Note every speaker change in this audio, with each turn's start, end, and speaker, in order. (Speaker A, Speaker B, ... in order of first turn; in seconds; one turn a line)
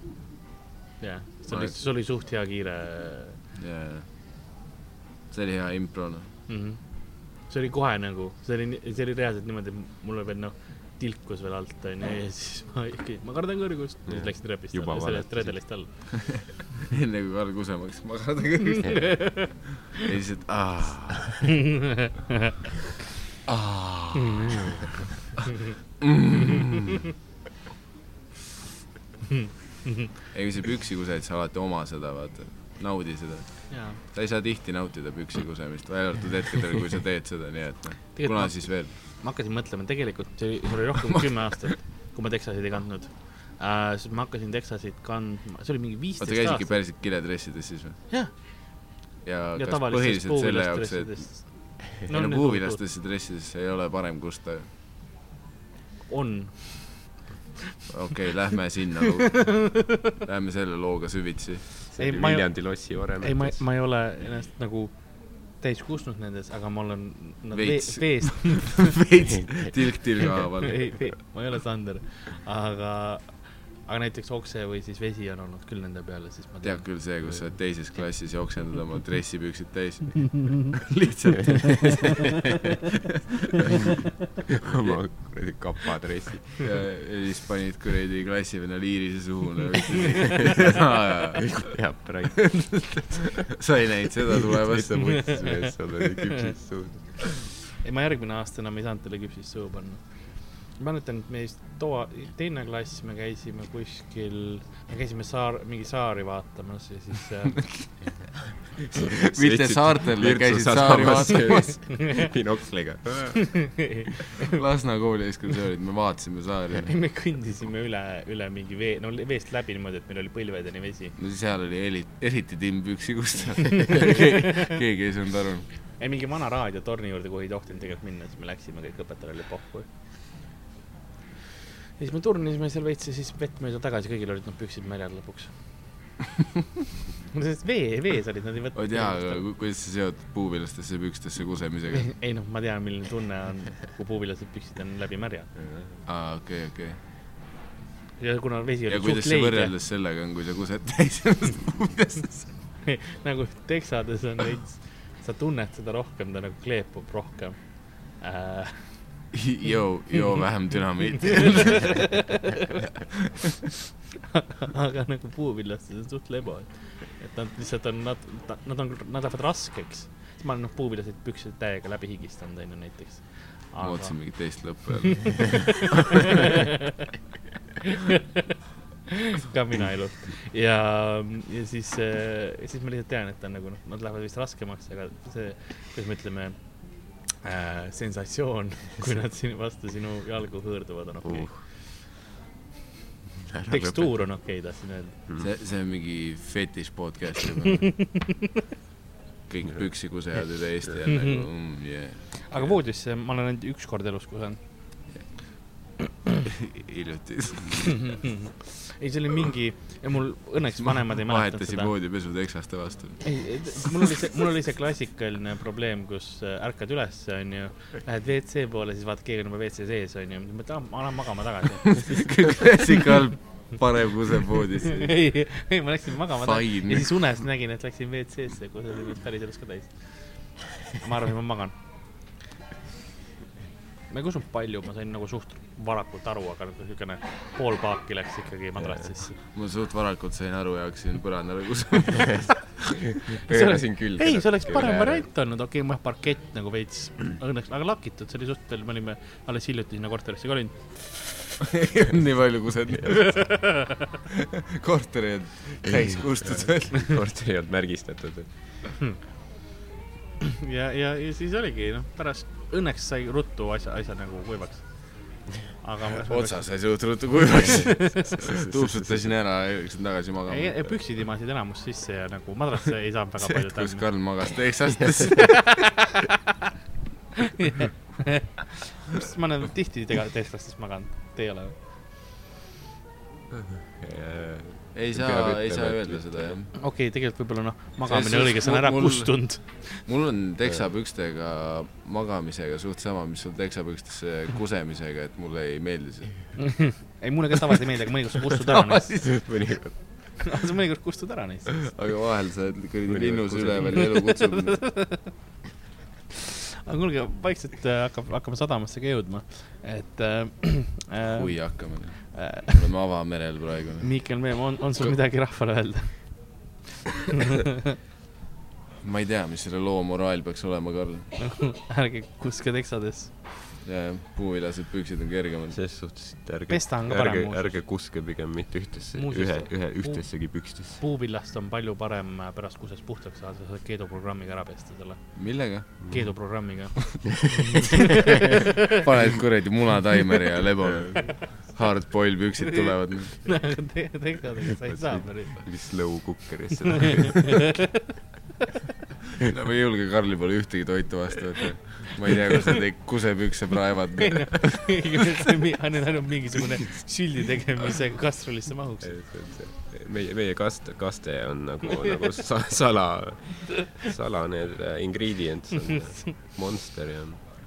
Speaker A: 1.0-3.4
Speaker B: 3.6-4.0
Speaker B: 5.3-6.3
Speaker A: 6.5-6.8
Speaker A: 7.5-15.9
Speaker C: 14.1-15.6
Speaker B: 16.6-21.6
Speaker A: 18.8-19.5
Speaker A: 21.7-22.3
Speaker B: 23.5-24.6
Speaker A: 24.1-25.1
Speaker B: 26.0-26.9
Speaker A: 29.4-30.1
Speaker B: 30.3-38.9
Speaker A: 33.7-34.0
Speaker A: 38.1-46.8
Speaker B: 46.2-48.0
Speaker A: 48.1-48.9
Speaker B: 49.2-54.7
Speaker A: 49.6-52.8
Speaker A: 56.1-57.1
Speaker B: 57.9-61.8
Speaker A: 59.4-60.0
Speaker C: 61.9-63.6
Speaker A: 62.0-69.0
Speaker B: 67.5-71.1
Speaker C: 69.3-69.7
Speaker A: 70.6-77.4
Speaker B: 76.6-82.9
Speaker A: 81.5-82.2
Speaker C: 84.6-86.6
Speaker B: 86.6-91.7
Speaker A: 90.3-90.6
Speaker C: 91.3-92.6
Speaker B: 92.4-95.5
Speaker C: 94.4-97.0
Speaker A: 95.1-95.7
Speaker A: 96.3-96.5
Speaker A: 97.8-100.0
Speaker A: 100.7-107.6
Speaker B: 108.8-111.8
Speaker C: 108.9-113.7
Speaker A: 111.9-112.3
Speaker A: 113.3-114.6
Speaker B: 114.4-117.0
Speaker A: 116.8-121.1
Speaker B: 121.2-125.7
Speaker A: 123.9-124.2
Speaker A: 126.0-129.9
Speaker A: 132.0-135.5
Speaker A: 137.3-139.4
Speaker B: 138.7-142.1
Speaker A: 141.9-145.5
Speaker B: 146.1-147.0
Speaker A: 148.2-149.7
Speaker B: 148.9-152.5
Speaker A: 152.8-159.0
Speaker B: 159.3-162.6
Speaker A: 161.2-162.7
Speaker A: 164.2-176.8
Speaker B: 173.8-176.6
Speaker A: 177.8-178.6
Speaker A: 179.1-186.7
Speaker A: 187.4-191.6
Speaker C: 191.2-191.6
Speaker C: 193.4-194.1
Speaker A: 193.7-195.2
Speaker B: 195.4-198.1
Speaker A: 197.9-198.3
Speaker B: 199.5-202.7
Speaker A: 201.1-201.4
Speaker A: 202.4-204.6
Speaker B: 206.4-208.2
Speaker A: 207.8-211.9
Speaker B: 210.8-213.3
Speaker A: 213.2-222.6
Speaker B: 222.0-225.2
Speaker A: 224.8-229.9
Speaker B: 226.4-227.1
Speaker A: 230.8-231.7
Speaker A: 234.1-239.3
Speaker B: 239.5-242.9
Speaker C: 243.0-245.2
Speaker A: 243.3-251.5
Speaker B: 251.6-257.2
Speaker A: 253.0-254.1
Speaker C: 256.4-258.5
Speaker A: 260.4-265.1
Speaker A: 265.8-266.6
Speaker B: 266.2-270.9
Speaker A: 267.7-268.4
Speaker C: 268.6-269.2
Speaker A: 270.5-274.0
Speaker B: 273.4-275.9
Speaker A: 275.4-276.3
Speaker A: 277.4-281.8
Speaker C: 283.5-286.6
Speaker B: 284.9-286.7
Speaker A: 286.7-290.0
Speaker B: 288.1-296.8
Speaker A: 296.6-299.3
Speaker C: 299.1-300.0
Speaker A: 300.4-301.9
Speaker B: 301.9-304.9
Speaker C: 303.1-304.0
Speaker A: 304.0-305.3
Speaker A: 306.4-311.7
Speaker B: 311.3-314.1
Speaker A: 312.3-312.8
Speaker A: 314.0-316.5
Speaker A: 317.3-317.8
Speaker B: 319.0-321.3
Speaker A: 321.4-323.4
Speaker B: 323.8-325.8
Speaker C: 325.7-331.0
Speaker A: 326.7-327.8
Speaker A: 329.1-335.4
Speaker B: 335.4-336.0
Speaker C: 336.0-336.3
Speaker A: 336.1-338.9
Speaker B: 338.4-343.4
Speaker C: 340.9-341.2
Speaker A: 342.7-345.6
Speaker C: 344.8-347.6
Speaker A: 346.9-348.0
Speaker B: 349.4-355.1
Speaker A: 354.2-359.1
Speaker C: 359.0-367.4
Speaker A: 365.9-366.3